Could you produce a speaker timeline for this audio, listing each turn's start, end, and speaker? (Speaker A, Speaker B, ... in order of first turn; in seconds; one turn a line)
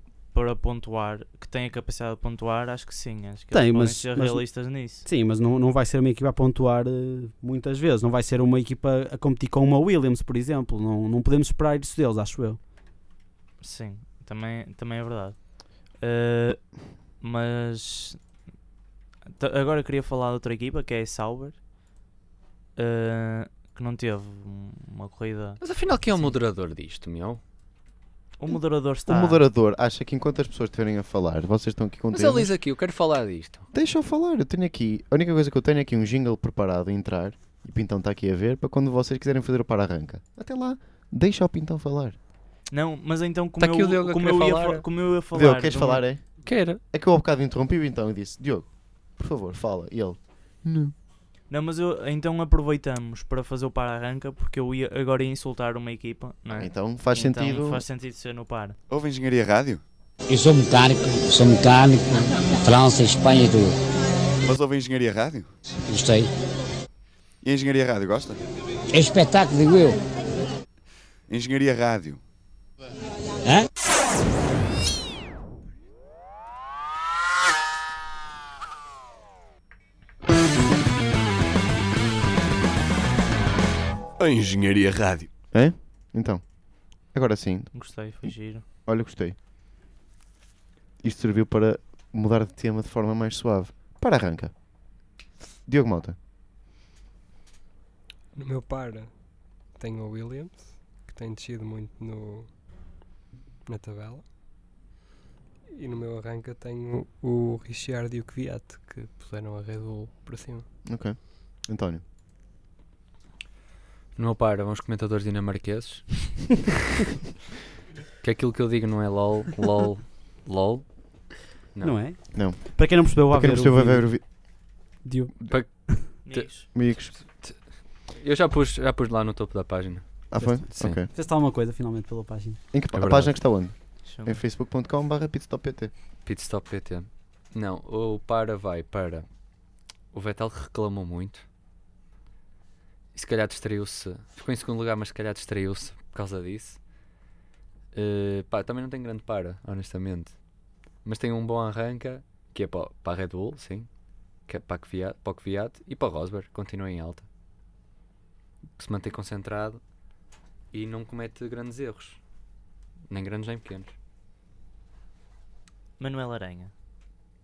Speaker A: 0.3-5.0
Speaker B: 3.5-12.6
Speaker A: 13.6-18.2
Speaker A: 19.4-21.6
Speaker A: 22.8-26.3
Speaker C: 25.6-27.4
Speaker A: 28.4-29.4
Speaker D: 29.1-32.5
Speaker C: 32.1-33.7
Speaker D: 33.7-42.1
Speaker A: 42.7-46.0
Speaker C: 43.6-44.9
Speaker D: 45.3-50.9
Speaker C: 46.4-46.8
Speaker A: 51.5-58.8
Speaker D: 56.5-57.8
Speaker E: 58.9-59.8
Speaker F: 60.3-63.7
Speaker E: 64.4-65.5
Speaker F: 65.9-66.3
Speaker E: 67.4-68.4
Speaker F: 68.9-70.0
Speaker E: 71.3-72.2
Speaker E: 84.2-85.3
Speaker D: 85.5-89.3
Speaker A: 87.7-88.6
Speaker D: 91.0-94.6
Speaker D: 95.7-96.2
Speaker G: 98.3-102.5
Speaker G: 103.7-104.2
Speaker G: 105.7-110.7
Speaker D: 110.8-112.0
Speaker C: 114.2-116.6
Speaker C: 118.2-122.0
Speaker B: 121.8-124.3
Speaker D: 122.3-124.2
Speaker B: 125.0-126.0
Speaker C: 125.5-130.2
Speaker A: 126.2-126.7
Speaker D: 126.7-127.1
Speaker D: 130.3-131.1
Speaker B: 130.4-132.6
Speaker D: 132.7-135.9
Speaker C: 132.9-133.4
Speaker A: 134.0-134.4
Speaker C: 136.2-139.2
Speaker C: 140.1-141.4
Speaker C: 143.1-146.8
Speaker C: 147.9-150.4
Speaker C: 151.0-153.9
Speaker C: 154.5-157.2
Speaker C: 158.8-159.8
Speaker C: 160.7-162.2
Speaker C: 163.1-163.9
Speaker A: 166.0-166.7